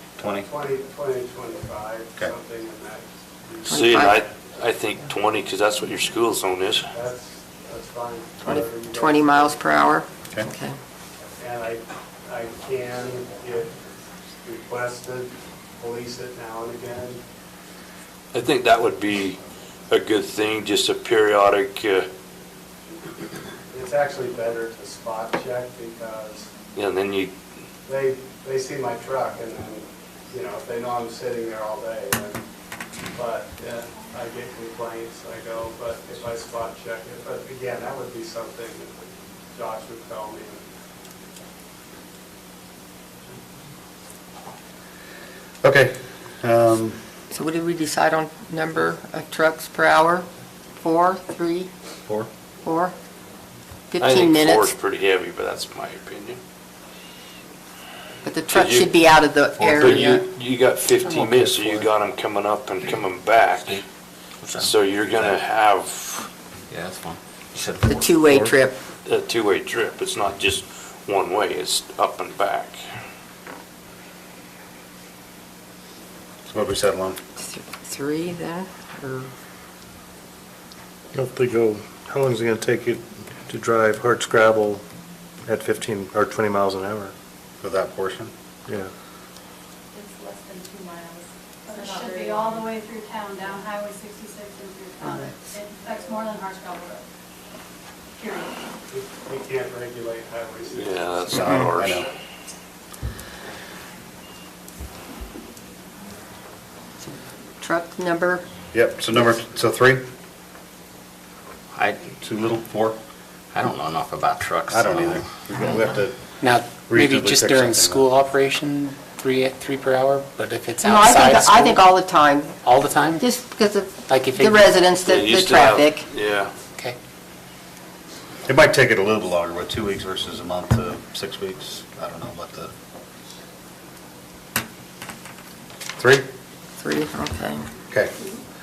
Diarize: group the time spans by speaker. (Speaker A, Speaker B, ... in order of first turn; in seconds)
Speaker A: 0.2-0.5, 45.6-47.0, 76.5-77.2, 87.6-88.3, 101.3-102.1, 108.7-110.0, 112.2-113.0, 114.7-116.2, 116.8-118.0, 128.5-132.7, 136.0-136.2
Speaker B: 0.3-4.2, 6.9-9.6, 11.4-13.8, 14.4-17.2, 23.7-26.5, 27.9-32.4, 33.1-38.9, 39.5-40.6, 98.9-101.2
Speaker C: 3.6-4.2, 8.4-10.8, 47.3-50.3, 50.8-51.7, 52.6-52.9, 53.9-54.7, 58.2-60.2, 67.9-68.8, 77.4-79.3, 95.0-95.3, 101.3-101.7, 107.6-108.4, 120.8-122.6, 123.2-126.1, 136.8-137.7
Speaker D: 3.7-6.9, 18.3-22.1, 26.7-27.3, 54.0-56.4, 58.5-58.9, 59.6-63.8, 64.5-66.3, 69.0-72.8, 100.8-102.1, 125.0-126.5
Speaker E: 64.4-65.3, 66.7-68.5, 111.7-112.2, 113.5-115.8
Speaker F: 81.1-84.8, 85.4-87.1
Speaker G: 89.9-92.7, 93.4-93.7
Speaker H: 91.7-97.0, 98.2-98.5
Speaker I: 116.4-121.9, 122.6-123.4, 124.0-124.8